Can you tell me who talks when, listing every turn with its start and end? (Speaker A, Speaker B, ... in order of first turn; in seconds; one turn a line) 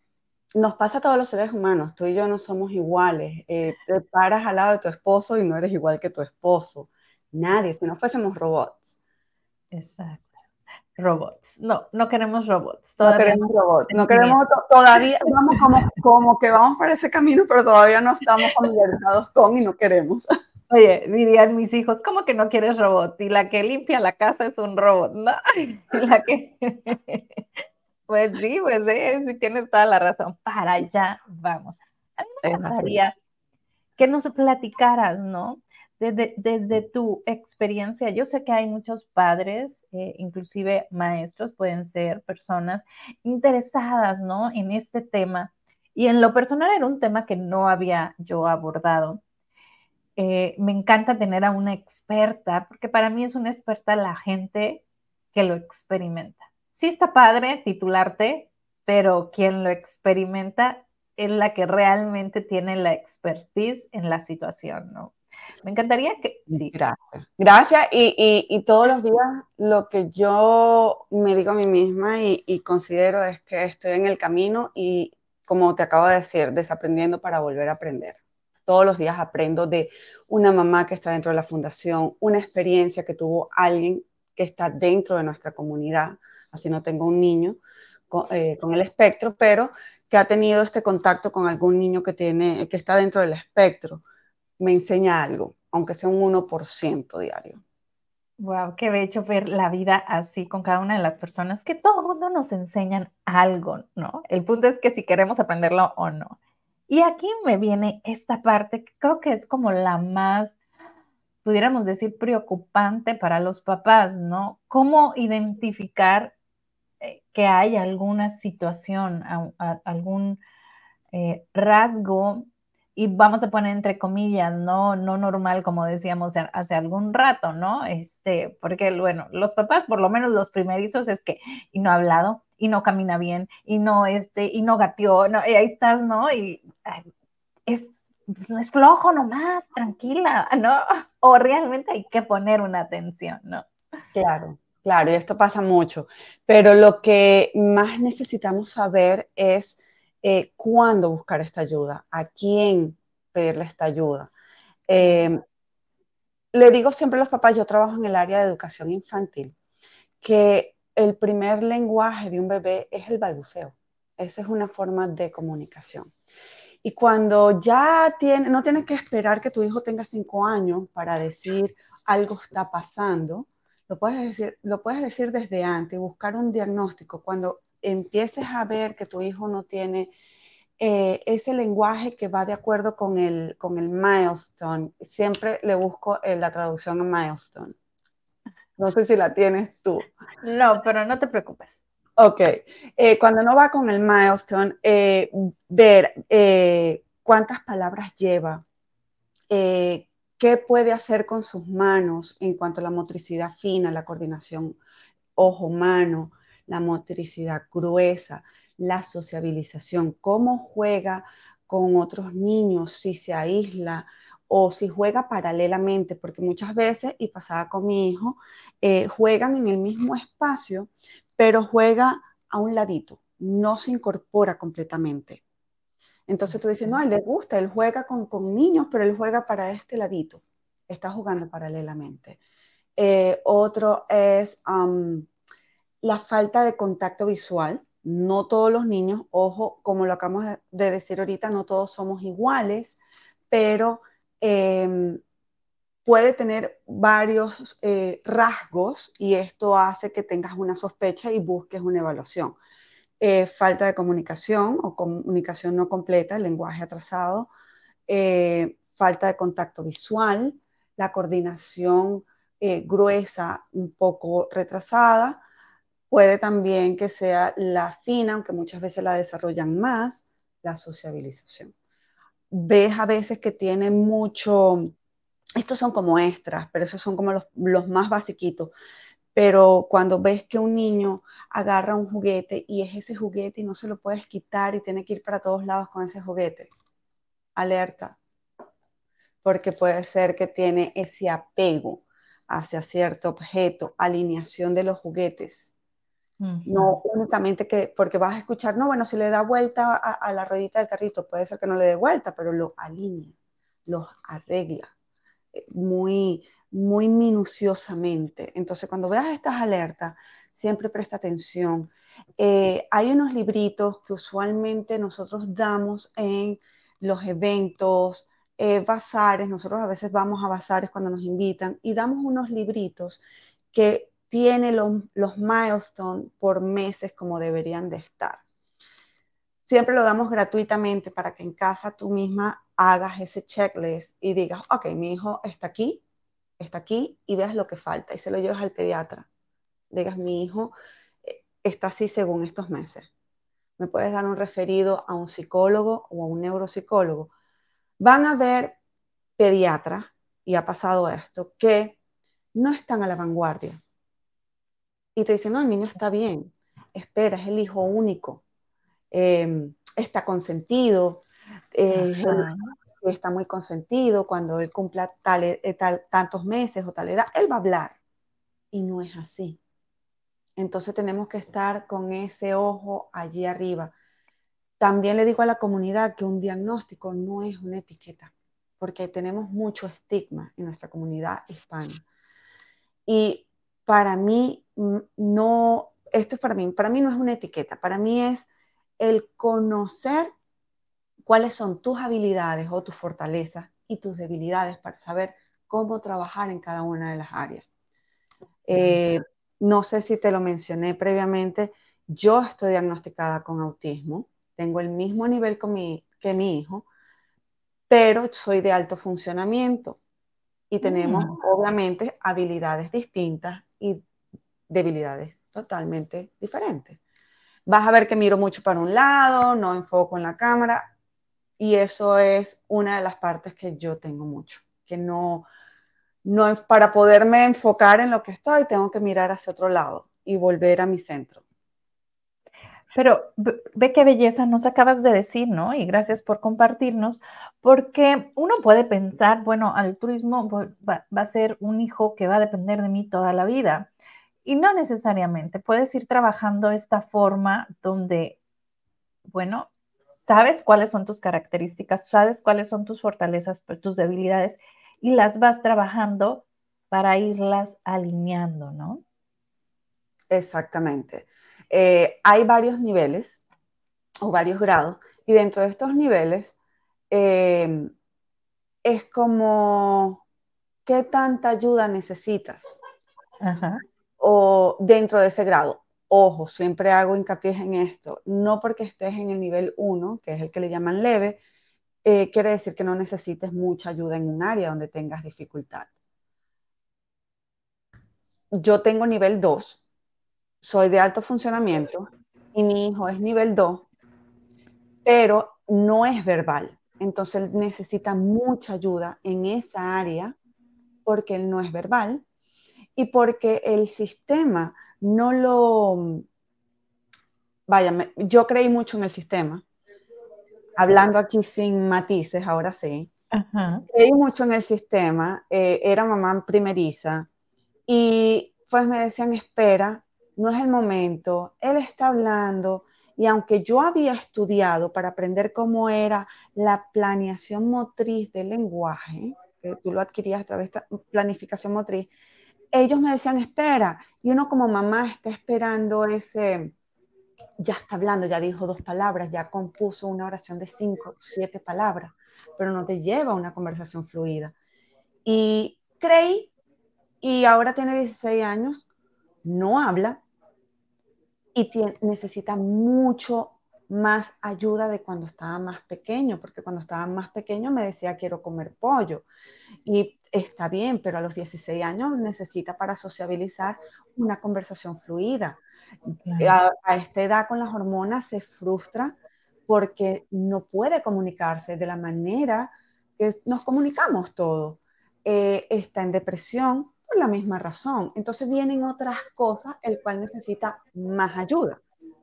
Speaker A: 0.6-9.0
Speaker B: 9.7-10.4
Speaker B: 11.0-14.4
Speaker A: 13.0-20.3
Speaker B: 20.7-27.4
Speaker B: 28.1-33.1
Speaker A: 32.4-33.0
Speaker B: 34.0-49.2
Speaker B: 50.2-66.8
Speaker A: 66.5-87.6
Speaker A: 88.1-94.0
Speaker A: 94.6-97.6
Speaker B: 98.4-106.4
Speaker B: 106.9-110.6
Speaker B: 111.4-116.3
Speaker B: 117.0-120.4
Speaker B: 121.1-137.1
Speaker B: 137.7-143.7
Speaker A: 144.1-154.3
Speaker A: 154.9-155.4
Speaker B: 155.0-155.2
Speaker A: 156.5-159.6
Speaker A: 160.2-166.1
Speaker A: 166.8-180.1
Speaker A: 180.8-187.8
Speaker A: 188.8-190.1
Speaker B: 190.4-191.8
Speaker A: 192.2-198.7
Speaker A: 199.5-204.8
Speaker A: 205.4-225.4
Speaker A: 226.3-232.4
Speaker A: 233.0-235.3
Speaker A: 236.0-243.0
Speaker A: 243.5-245.2
Speaker A: 246.1-252.6
Speaker A: 253.2-257.5
Speaker A: 258.1-265.4
Speaker A: 266.1-271.7
Speaker A: 272.5-274.9
Speaker A: 275.6-278.7
Speaker A: 279.4-286.7
Speaker A: 287.6-288.2
Speaker A: 289.4-295.7
Speaker B: 296.4-297.0
Speaker A: 296.7-303.4
Speaker A: 303.9-304.9
Speaker A: 305.5-323.2
Speaker A: 323.7-328.4
Speaker A: 329.7-336.0
Speaker A: 336.6-339.3
Speaker A: 339.9-343.1
Speaker A: 343.8-347.3
Speaker A: 348.0-348.8
Speaker A: 349.4-352.0
Speaker A: 352.6-353.8
Speaker A: 355.1-358.4
Speaker A: 359.1-368.0
Speaker B: 361.9-362.7
Speaker A: 368.7-369.6
Speaker A: 370.6-373.9
Speaker A: 374.8-382.0
Speaker A: 383.1-388.5
Speaker A: 389.0-390.3
Speaker A: 391.2-397.7
Speaker A: 398.7-406.9
Speaker A: 407.9-410.0
Speaker A: 410.7-414.0
Speaker B: 410.8-411.4
Speaker A: 414.7-417.0
Speaker A: 417.7-420.9
Speaker A: 421.6-425.5
Speaker A: 426.2-431.4
Speaker B: 432.9-443.9
Speaker B: 444.4-448.4
Speaker B: 449.3-459.0
Speaker A: 460.3-463.4
Speaker A: 464.2-466.6
Speaker A: 467.1-467.9
Speaker A: 468.9-470.2
Speaker A: 470.9-472.8
Speaker B: 473.4-473.8
Speaker A: 474.2-481.4
Speaker A: 482.0-485.9
Speaker A: 488.6-489.8
Speaker A: 490.6-493.9
Speaker A: 495.1-500.4
Speaker A: 501.1-502.2
Speaker A: 503.0-506.2
Speaker A: 507.7-509.6
Speaker A: 510.8-513.1
Speaker B: 513.3-513.9
Speaker A: 513.9-517.3
Speaker A: 517.9-532.1
Speaker A: 532.7-536.8
Speaker A: 537.6-544.5
Speaker A: 545.2-546.5
Speaker A: 547.2-548.9
Speaker A: 549.4-550.2
Speaker A: 551.5-559.2
Speaker A: 559.9-565.6
Speaker B: 566.2-566.6
Speaker A: 566.4-569.2
Speaker A: 569.7-581.8